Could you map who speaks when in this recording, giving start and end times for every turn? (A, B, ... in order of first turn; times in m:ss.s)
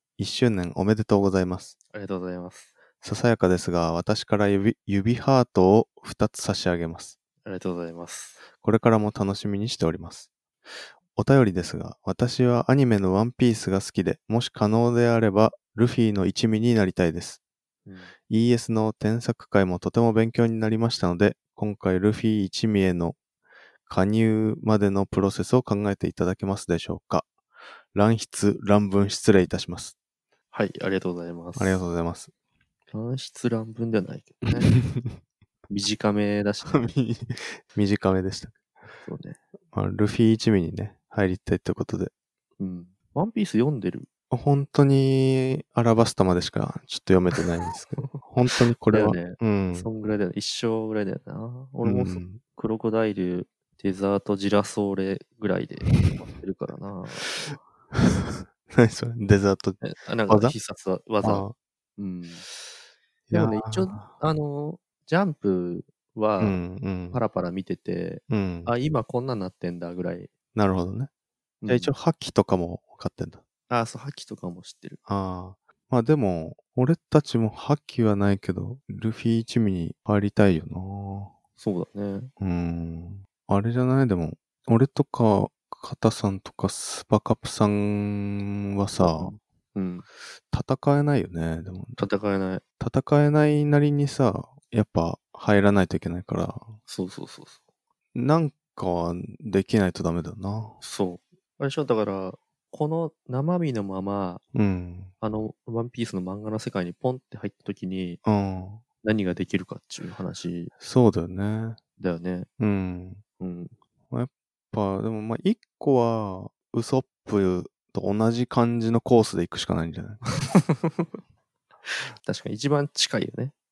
0:00.2-0:01.8 A
0:01.9-0:02.7 B
0:03.0-0:07.2 A
0:07.4-0:08.4 B
0:08.6-0:10.3 A
0:11.2-0:17.4 A
0:17.8-0:18.1 B
0:18.3-0:23.2 A
0:23.8-0:27.3 A
0:27.9-0:30.0 A
0:30.5-0:31.8 B
0:31.5-0:32.3 A
0:32.9-0:34.7 B
0:34.6-0:35.2 A
0:35.7-0:36.9 B
0:36.7-0:38.5 A
0:39.0-0:39.4 B
0:39.7-0:42.1 A
0:42.6-0:44.1 B
0:44.3-0:49.9 A
0:48.0-0:48.2 B
0:48.9-0:57.6 B
0:51.8-0:52.4 A
0:55.8-0:56.2 A
0:57.9-1:00.5 A
0:59.8-1:02.4 B
1:01.2-1:01.5 A
1:03.3-1:04.1 A
1:03.3-1:10.3 B
1:06.4-1:07.2 A
1:08.3-1:08.7 A
1:10.5-1:11.1 A
1:11.6-1:11.9 B
1:11.7-1:13.4 A
1:13.7-1:15.0 B
1:15.1-1:21.3 A
1:21.6-1:22.3 B
1:22.4-1:29.3 A
1:29.0-1:30.0 B
1:30.5-1:32.0 A
1:32.0-1:32.6 B
1:32.8-1:36.8 A
1:36.9-1:37.6 B
1:38.1-1:40.8 A
1:40.8-1:44.4 B
1:44.5-1:45.1 A
1:45.2-1:48.2 B
1:48.2-1:48.8 A
1:49.0-1:50.7 B
1:50.8-1:51.8 A
1:52.0-1:52.5 B
1:52.6-1:53.2 A
1:53.4-1:53.7 B
1:54.1-2:00.2 A
2:02.2-2:03.5 B